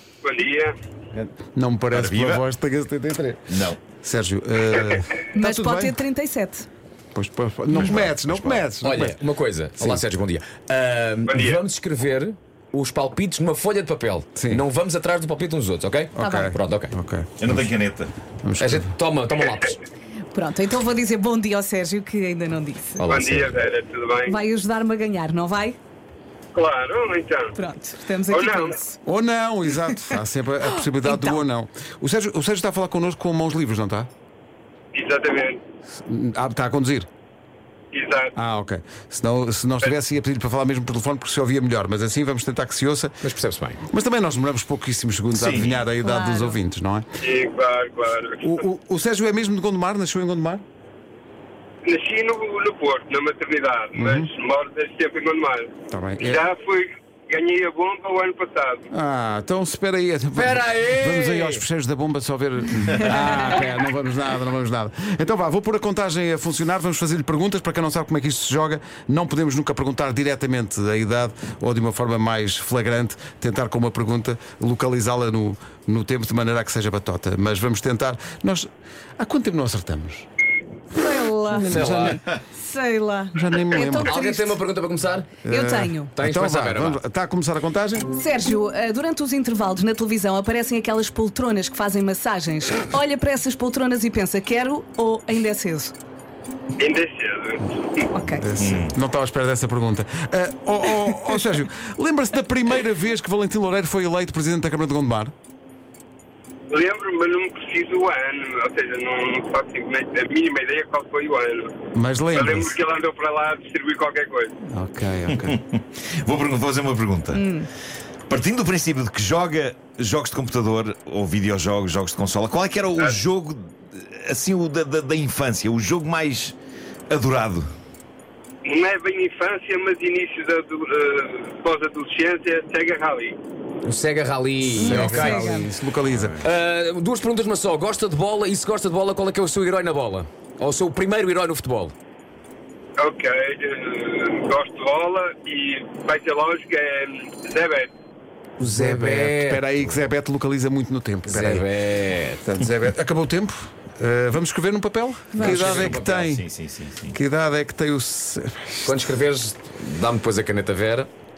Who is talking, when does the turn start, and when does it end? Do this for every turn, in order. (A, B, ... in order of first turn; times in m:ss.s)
0:00.2-0:00.7 A
0:01.2-0:06.0 B
0:01.9-0:02.4 C
0:03.5-0:03.8 C
0:05.3-0:06.7 D
0:07.1-0:09.2 B
0:07.7-0:08.6 C
0:08.8-0:16.9 E
0:11.2-0:11.6 A
0:14.4-0:14.6 B
0:16.1-0:17.6 B
0:16.2-0:16.5 D
0:17.4-0:18.1 C
0:18.4-0:18.9 B
0:18.6-0:19.8 E
0:20.3-0:23.0 D
0:23.0-0:23.5 E
0:23.0-0:24.4 A
0:24.3-0:25.8 D
0:26.5-0:27.5 A
0:27.5-0:29.0 D
0:28.3-0:28.8 A
0:29.0-0:34.1 B
0:31.0-0:31.4 D
0:34.9-0:35.6 A
0:36.0-0:37.1 B
0:37.9-0:38.3 A
0:38.3-0:43.2 B
0:43.2-0:43.8 E
0:43.9-0:47.0 B
0:45.3-0:45.8 C
0:46.0-0:46.6 D
0:47.2-0:48.5 A
0:48.4-0:50.6 B
0:51.8-0:58.9 A
0:53.9-0:54.3 B
0:55.9-0:56.4 B
0:58.9-1:20.2 B
1:00.3-1:01.6 E
1:20.9-1:24.6 D
1:21.5-1:22.3 B
1:21.6-1:22.2 E
1:23.3-1:24.2 B
1:23.9-1:25.4 E
1:25.4-1:28.1 B
1:25.4-1:26.1 D
1:26.1-1:27.0 E
1:28.1-1:35.9 D
1:36.8-1:38.0 A
1:38.1-1:38.4 D
1:38.2-1:45.3 B
1:38.6-1:38.9 C
1:46.7-1:51.8 A
1:51.9-1:52.8 B
1:52.3-1:54.5 A
1:54.7-1:55.6 B
1:55.3-1:57.4 C
1:57.3-1:57.7 D
1:58.3-2:06.6 C
2:07.1-2:07.7 C
2:08.6-2:13.4 A
2:13.8-2:15.6 E
2:14.7-2:16.4 B
2:14.8-2:15.7 D
2:16.4-2:21.9 E
2:23.0-2:27.9 A
2:28.6-2:31.6 B
2:28.6-2:29.9 E
2:31.2-2:32.4 E
2:32.4-2:36.4 B
2:35.3-2:35.6 D
2:35.4-2:36.2 E
2:35.6-2:37.2 C
2:37.1-2:38.9 B
2:38.8-2:41.1 E